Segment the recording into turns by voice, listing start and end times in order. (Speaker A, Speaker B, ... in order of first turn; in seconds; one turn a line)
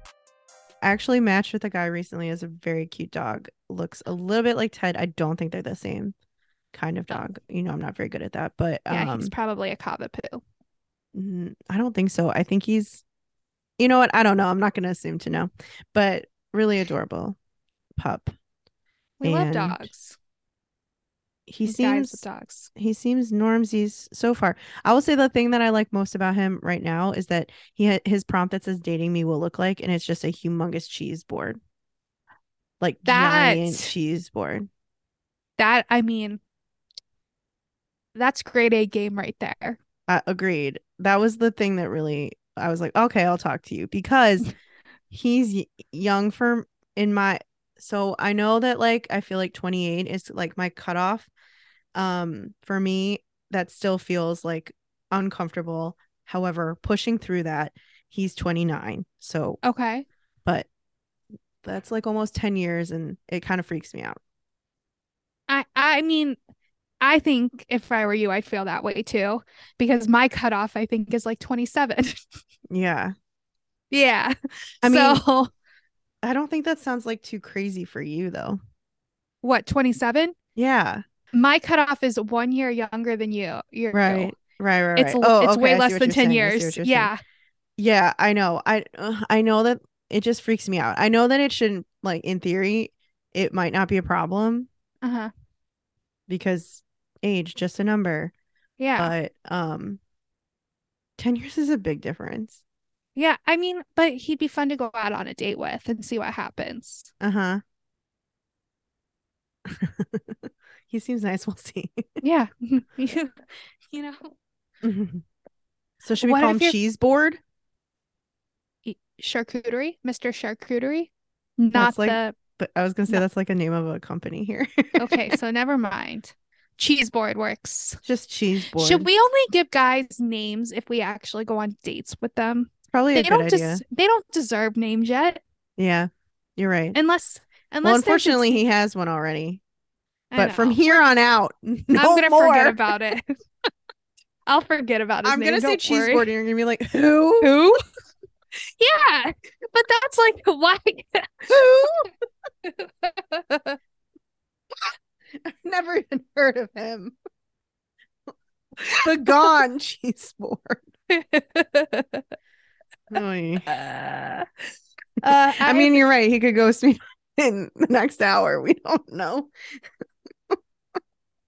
Speaker A: 0.8-6.1
Speaker A: 6.7-9.3
Speaker B: 8.9-10.4
Speaker A: 11.1-13.0
Speaker A: 13.8-17.4
Speaker A: 18.0-18.3
Speaker B: 19.2-20.2
Speaker A: 19.2-19.9
Speaker A: 21.5-22.2
Speaker B: 21.6-22.7
Speaker A: 22.7-31.6
Speaker A: 32.8-34.7
Speaker B: 33.0-33.9
Speaker B: 35.6-36.4
Speaker B: 38.1-39.8
Speaker A: 40.1-44.5
Speaker A: 45.1-51.3
Speaker A: 51.9-59.6
Speaker B: 59.6-60.0
Speaker A: 61.6-64.2
Speaker B: 65.5-66.4
Speaker B: 67.0-72.2
Speaker A: 72.7-73.1
Speaker B: 73.9-75.5
Speaker A: 74.8-75.2
Speaker A: 76.2-78.6
Speaker B: 79.4-80.3
Speaker A: 80.5-81.0
Speaker B: 81.3-84.3
Speaker A: 83.9-87.1
Speaker B: 85.0-87.2
Speaker A: 87.8-94.7
Speaker B: 95.0-95.3
Speaker A: 96.3-98.3
Speaker B: 98.8-99.1
Speaker A: 99.0-100.0
Speaker A: 101.2-102.6
Speaker B: 103.2-107.1
Speaker A: 107.2-107.6
Speaker A: 109.7-112.2
Speaker B: 112.2-114.3
Speaker A: 114.8-115.2
Speaker A: 116.0-117.4
Speaker B: 116.2-116.8
Speaker B: 118.8-122.4
Speaker A: 121.7-125.3
Speaker B: 125.0-128.0
Speaker A: 128.0-129.1
Speaker B: 128.7-135.4
Speaker A: 132.9-133.8
Speaker A: 135.8-137.0
Speaker B: 136.9-138.5
Speaker A: 137.8-139.6
Speaker B: 140.3-141.0
Speaker A: 140.4-142.9
Speaker B: 141.9-143.4
Speaker B: 144.4-146.3
Speaker A: 145.2-147.6
Speaker B: 147.4-147.8
Speaker B: 148.8-151.5
Speaker A: 151.5-152.1
Speaker B: 152.6-153.8
Speaker A: 155.4-157.2
Speaker A: 158.9-160.8
Speaker B: 161.1-162.2
Speaker A: 163.1-163.7
Speaker B: 163.7-164.5
Speaker B: 165.2-166.0
Speaker A: 165.6-169.5